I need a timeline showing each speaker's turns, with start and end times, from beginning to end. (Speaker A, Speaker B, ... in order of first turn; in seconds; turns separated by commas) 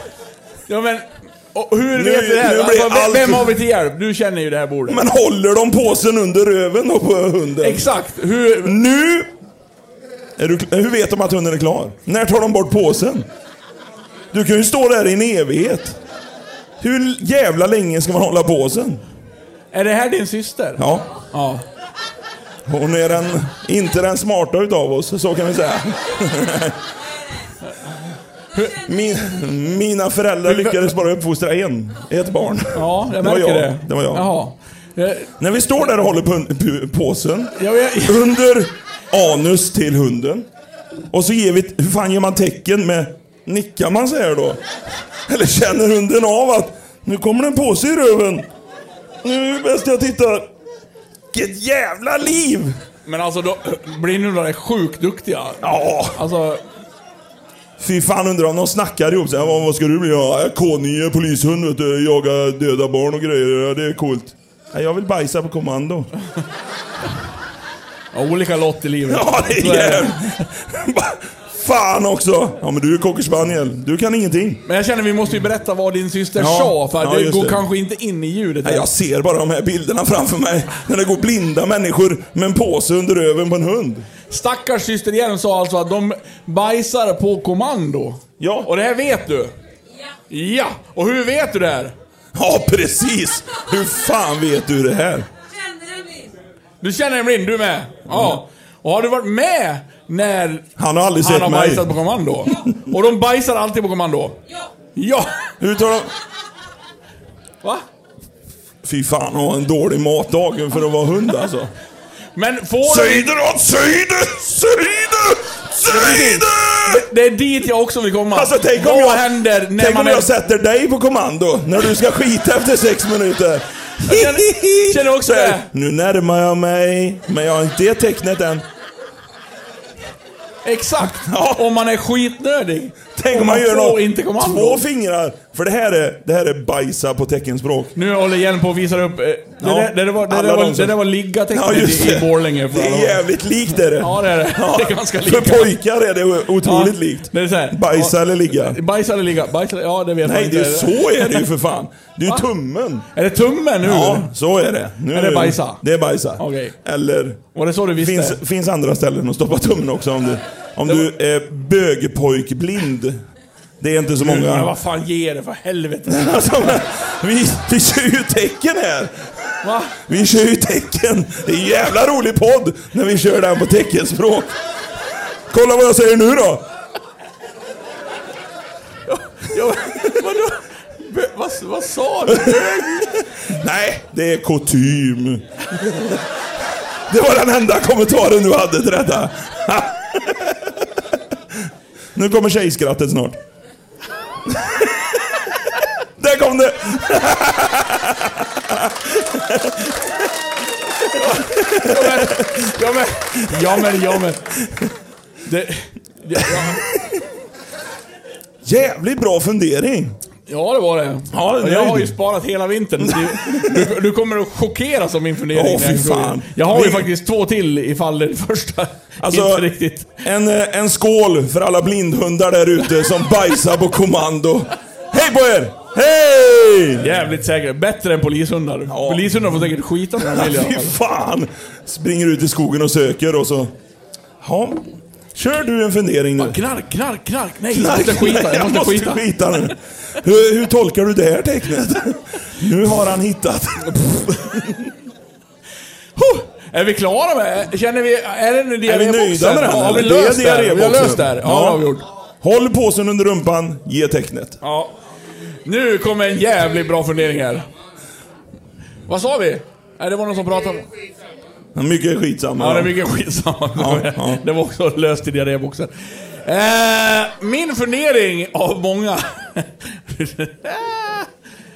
Speaker A: 0.7-5.0, Speaker B: 1.9-3.5, Speaker B: 4.9-7.8, Speaker A: 7.6-8.8, Speaker B: 8.6-9.3, Speaker B: 10.4-13.3, Speaker B: 14.3-16.0, Speaker B: 16.8-19.0, Speaker A: 19.7-21.6, Speaker B: 20.8-21.1, Speaker B: 22.7-26.8, Speaker B: 28.7-34.3, Speaker A: 30.4-30.8, Speaker A: 32.7-35.3, Speaker B: 35.4-40.5, Speaker A: 37.6-38.3, Speaker B: 41.1-44.6, Speaker B: 45.3-48.5, Speaker B: 49.2-50.5, Speaker B: 51.3-52.8, Speaker A: 53.1-56.6, Speaker B: 55.6-56.2, Speaker B: 57.8-66.1, Speaker A: 68.1-70.2, Speaker B: 69.1-74.6, Speaker A: 74.7-78.9, Speaker B: 76.3-77.6, Speaker B: 78.6-84.1, Speaker A: 84.3-89.5, Speaker B: 88.4-88.7, Speaker A: 90.3-91.9, Speaker B: 92.3-95.3, Speaker A: 96.8-100.7, Speaker B: 98.1-98.4, Speaker B: 100.8-101.9, Speaker A: 101.2-104.4, Speaker A: 105.0-105.3, Speaker B: 105.6-106.2, Speaker B: 108.8-111.7, Speaker A: 112.3-113.3, Speaker B: 112.8-117.1, Speaker A: 115.8-120.3, Speaker B: 118.3-128.7, Speaker A: 124.0-125.7, Speaker A: 130.7-134.8, Speaker B: 131.3-131.6, Speaker B: 133.2-137.9, Speaker A: 138.0-143.2, Speaker B: 139.6-148.8, Speaker A: 143.9-145.7, Speaker A: 146.6-151.5, Speaker B: 150.2-153.1, Speaker A: 153.1-154.3, Speaker B: 153.8-163.2, Speaker A: 155.1-155.8, Speaker A: 156.4-156.7, Speaker A: 157.5-158.4, Speaker B: 163.8-164.7, Speaker A: 164.2-166.8, Speaker B: 166.1-169.2, Speaker A: 169.6-170.0, Speaker B: 170.0-174.6, Speaker B: 175.5-176.7, Speaker A: 179.1-183.2, Speaker B: 182.3-186.2, Speaker B: 187.1-191.0, Speaker B: 192.2-193.4, Speaker B: 194.5-195.2, Speaker B: 196.2-200.3, Speaker A: 201.1-204.5, Speaker B: 201.1-202.7, Speaker A: 205.4-206.9, Speaker B: 206.5-207.0, Speaker B: 208.6-210.2, Speaker A: 210.5-220.2, Speaker B: 211.3-212.2, Speaker B: 213.0-213.9, Speaker B: 215.5-217.1, Speaker B: 219.2-219.7, Speaker B: 220.2-227.1, Speaker A: 227.0-230.9, Speaker B: 228.9-229.3, Speaker B: 230.2-233.7, Speaker B: 234.4-236.6, Speaker A: 236.4-239.2, Speaker B: 237.7-244.9, Speaker A: 246.2-252.1, Speaker B: 248.9-251.8, Speaker B: 252.4-254.6, Speaker A: 254.6-254.9, Speaker A: 255.7-257.7, Speaker A: 259.1-260.9, Speaker B: 261.8-262.9, Speaker A: 262.6-265.9, Speaker B: 263.8-264.4, Speaker A: 266.4-271.3